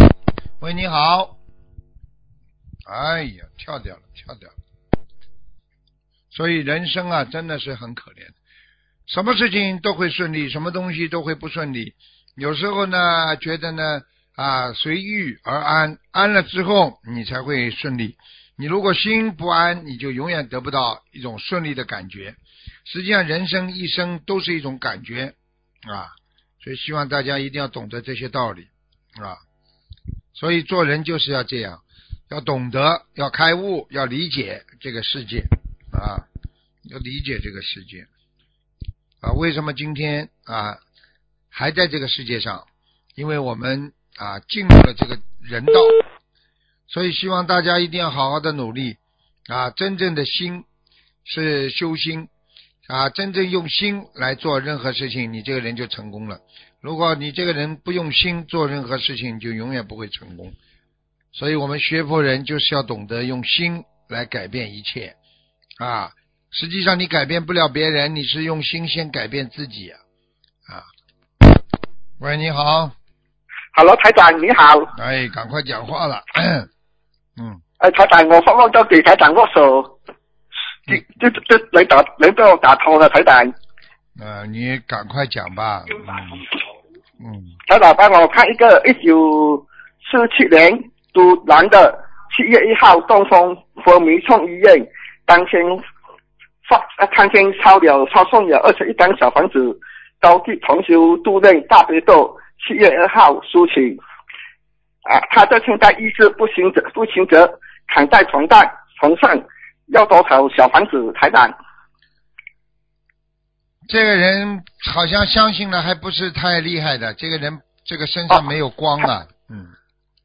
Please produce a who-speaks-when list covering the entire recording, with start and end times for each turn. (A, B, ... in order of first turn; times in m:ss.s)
0:00.6-0:01.4 A
0:02.8-0:04.5 A
0:06.3-0:08.3 A
0:09.1-0:29.4 A
0:30.3-0:36.2 A
0:36.8-0:38.1 A
0:39.2-0:40.8 A
0:41.5-0:42.6 A
0:43.2-0:46.0 A
0:46.9-0:50.6 A
0:51.2-0:52.3 A
0:52.8-1:00.5 A
1:01.3-1:05.1 A
1:05.8-1:10.0 A
1:12.2-1:12.9 A
1:13.7-1:14.9 B
1:14.9-1:16.7 A
1:17.8-1:19.9 B
1:20.9-1:23.5 B
1:24.2-1:26.4 A
1:27.2-1:27.5 A
1:27.7-1:35.8 B
1:36.6-1:44.0 B
1:45.0-1:51.5 B
1:53.9-1:59.7 A